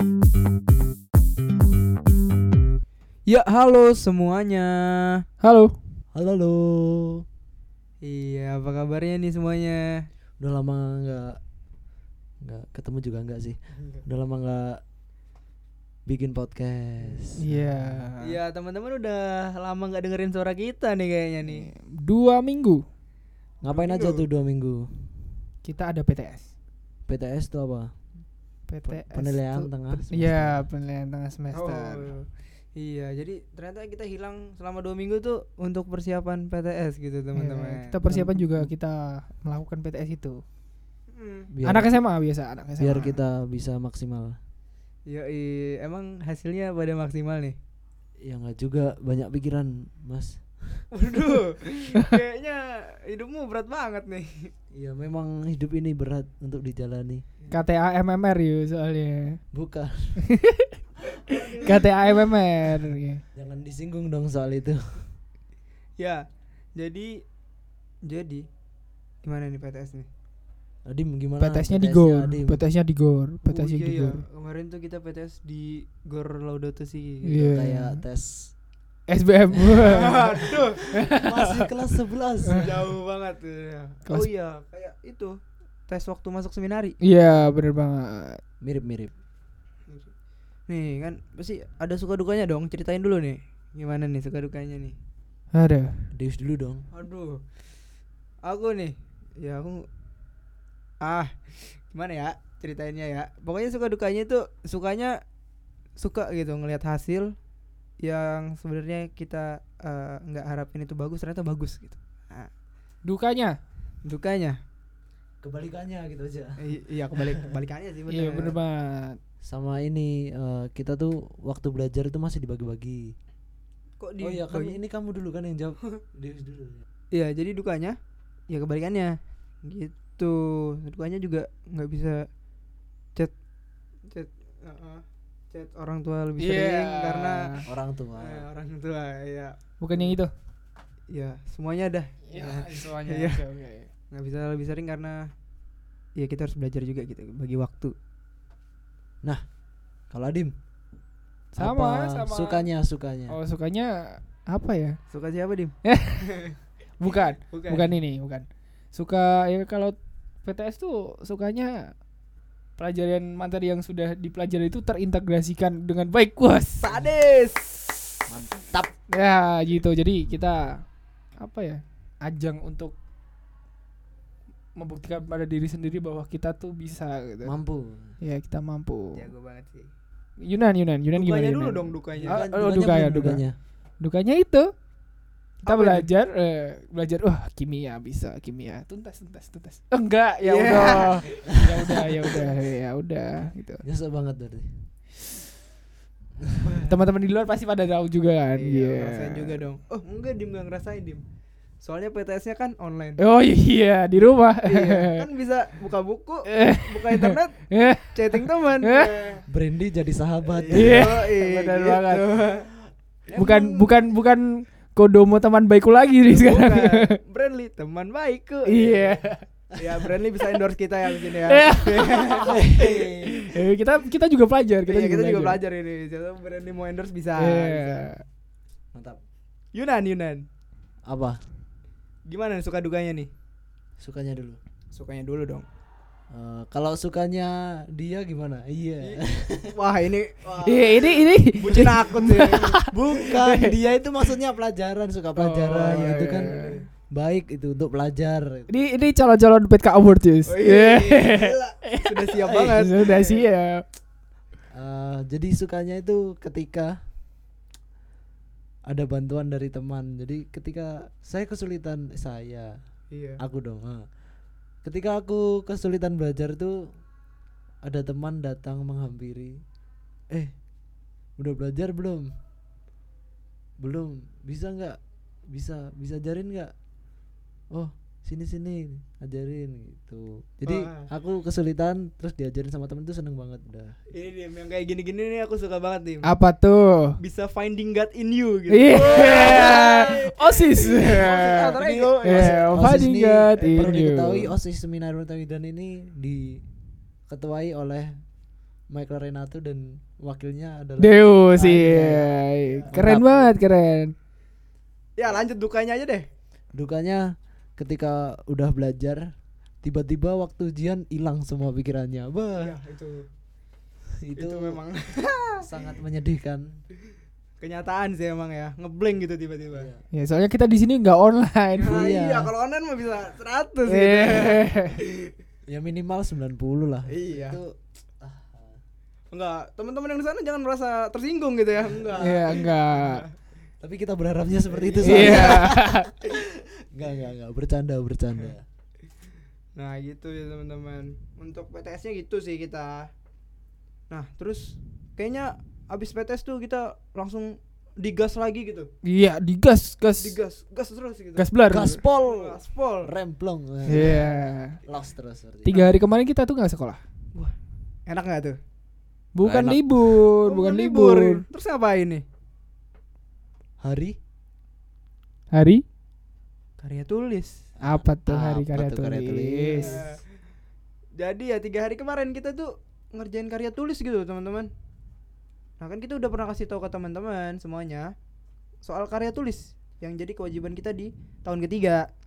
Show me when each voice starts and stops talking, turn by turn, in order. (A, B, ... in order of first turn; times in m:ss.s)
0:03.3-0:05.2 A
0:05.4-0:05.8 B
0:06.1-0:07.2 C
0:08.0-0:10.0 A
0:10.4-0:11.4 C
0:12.4-0:14.8 C
0:16.1-0:18.1 C
0:17.4-0:18.4 B
0:18.2-0:21.7 A
0:21.5-0:22.8 B
0:23.6-0:25.3 C
0:23.7-0:24.2 A
0:25.6-0:26.5 B
0:27.1-0:27.9 C
0:28.7-0:32.1 B
0:28.8-0:30.7 C
0:31.5-0:38.7 A
0:37.4-0:40.4 B
0:41.1-0:41.5 A
0:41.5-0:42.0 C
0:41.6-0:43.2 B
0:42.8-0:44.4 C
0:45.1-0:47.6 A
0:48.2-0:50.9 C
0:50.9-0:54.5 A
0:54.7-0:57.2 C
0:57.5-0:59.4 B
0:59.5-1:00.2 C
1:00.2-1:00.7 B
1:01.3-1:01.8 A
1:01.6-1:03.2 B
1:03.3-1:05.1 C
1:06.0-1:06.2 A
1:06.8-1:07.2 A
1:08.1-1:08.4 A
1:09.2-1:10.1 A
1:10.9-1:12.6 C
1:11.4-1:14.2 B
1:13.5-1:17.5 A
1:17.3-1:18.0 B
1:17.4-1:18.5 C
1:19.1-1:21.7 B
1:19.8-1:20.8 A
1:20.9-1:22.8 C
1:22.5-1:25.4 A
1:25.9-1:27.0 A
1:27.0-1:28.4 B
1:28.6-1:29.1 C
1:30.7-1:35.0 A
1:35.5-1:36.0 B
1:36.1-1:36.9 C
1:36.9-1:37.4 A
1:38.4-1:39.9 A
1:41.0-1:45.2 A
1:46.0-1:47.3 A
1:48.0-1:52.5 A
1:53.0-1:53.6 B
1:54.0-1:54.6 A
1:55.4-1:56.6 C
1:56.6-1:58.6 A
1:58.1-1:59.2 B
1:59.4-2:03.1 C
2:04.0-2:04.8 A
2:04.2-2:06.9 C
2:07.1-2:08.0 A
2:08.5-2:12.3 A
2:14.1-2:17.4 A
2:16.4-2:17.6 B
2:17.7-2:18.4 C
2:18.2-2:20.1 A
2:19.8-2:20.3 B
2:21.1-2:23.4 A
2:22.3-2:23.9 B
2:22.4-2:22.7 C
2:24.1-2:25.3 A
2:26.2-2:27.9 A
2:30.1-2:30.5 C
2:31.6-2:32.7 B
2:31.6-2:33.4 C
2:33.3-2:35.0 B
2:35.1-2:35.7 A
2:35.8-2:36.4 B
2:37.0-2:41.9 B
2:37.1-2:37.9 A
2:42.8-2:46.8 B
2:46.8-2:48.0 A
2:48.3-2:48.9 C
2:49.1-2:50.8 B
2:51.4-2:53.0 B
2:54.8-2:57.6 B
2:57.4-2:58.2 C
2:58.2-2:59.3 B
2:59.1-2:59.9 A
3:00.4-3:03.4 B
3:01.1-3:02.4 A
3:02.2-3:03.6 C
3:04.0-3:04.7 B
3:05.7-3:06.1 A
3:05.7-3:13.8 B
3:10.4-3:12.6 A
3:13.8-3:14.9 C
3:16.6-3:17.0 A
3:16.9-3:19.6 B
3:18.6-3:21.2 A
3:21.8-3:23.2 A
3:23.2-3:25.2 B
3:24.6-3:29.4 A
3:26.5-3:29.1 B
3:29.5-3:31.2 C
3:30.6-3:32.7 A
3:30.7-3:32.3 B
3:33.3-3:33.9 C
3:33.4-3:37.2 B
3:36.3-3:39.1 A
3:38.7-3:39.4 B
3:39.8-3:43.3 A
3:41.5-3:42.5 B
3:42.5-3:43.4 C
3:43.4-3:45.6 B
3:44.9-3:48.1 A
3:47.4-3:48.2 B
3:48.9-3:49.2 C
3:49.8-3:50.4 A
3:51.1-3:51.4 C
3:52.3-3:53.3 A
3:54.0-3:54.6 C
3:54.9-3:55.7 A
3:56.3-3:59.7 C
3:59.0-4:03.1 A
4:00.7-4:02.8 B
4:02.8-4:08.8 C
4:03.3-4:03.8 B
4:05.4-4:06.8 A
4:05.8-4:06.7 B
4:08.7-4:13.8 B
4:10.5-4:13.4 A
4:14.7-4:16.9 C
4:18.9-4:22.7 C
4:23.1-4:23.4 A
4:23.4-4:24.1 C
4:24.8-4:26.8 C
4:27.8-4:29.6 C
4:31.4-4:32.3 C
4:33.8-4:35.0 C
4:35.5-4:36.7 C
4:37.7-4:43.9 C
4:40.7-4:41.1 A
4:44.1-4:46.3 A
4:46.2-4:47.2 B
4:47.2-4:52.8 A
4:48.7-4:54.5 B
4:49.2-4:49.8 C
4:51.8-4:56.6 C
4:53.6-4:53.9 A
4:57.3-4:58.2 C
4:58.9-5:03.6 C
5:01.0-5:04.1 B
5:05.2-5:06.3 A
5:06.7-5:09.3 C
5:09.8-5:12.8 C
5:12.6-5:13.3 A
5:14.2-5:14.8 C
5:14.4-5:15.6 A
5:15.6-5:16.8 C
5:17.6-5:19.9 A
5:19.8-5:20.0 C
5:20.1-5:22.0 B
5:21.8-5:25.3 A
5:21.8-5:22.5 C
5:23.9-5:25.0 B
5:25.7-5:28.8 C
5:27.1-5:27.6 A
5:29.3-5:33.4 A
5:32.2-5:33.2 B
5:33.8-5:38.6 C
5:34.7-5:36.3 A
5:35.0-5:36.1 B
5:39.8-5:43.1 A
5:44.1-5:48.9 A
5:49.0-5:50.4 B
5:50.2-5:51.5 A
5:51.4-5:52.0 B
5:51.7-5:54.3 C
5:52.2-5:53.1 A
5:53.9-5:54.4 A
5:53.9-5:54.8 B
5:54.8-5:55.8 C
5:55.6-5:57.0 B
5:58.1-5:58.6 A
5:59.4-6:01.4 B
5:59.4-6:00.2 C
6:00.4-6:02.2 A
6:03.8-6:04.2 C
6:05.5-6:05.8 B
6:06.8-6:07.6 A
6:07.8-6:10.0 C
6:07.8-6:10.0 B
6:09.8-6:10.2 A
6:11.2-6:14.7 A
6:15.8-6:18.1 A
6:18.8-6:22.1 A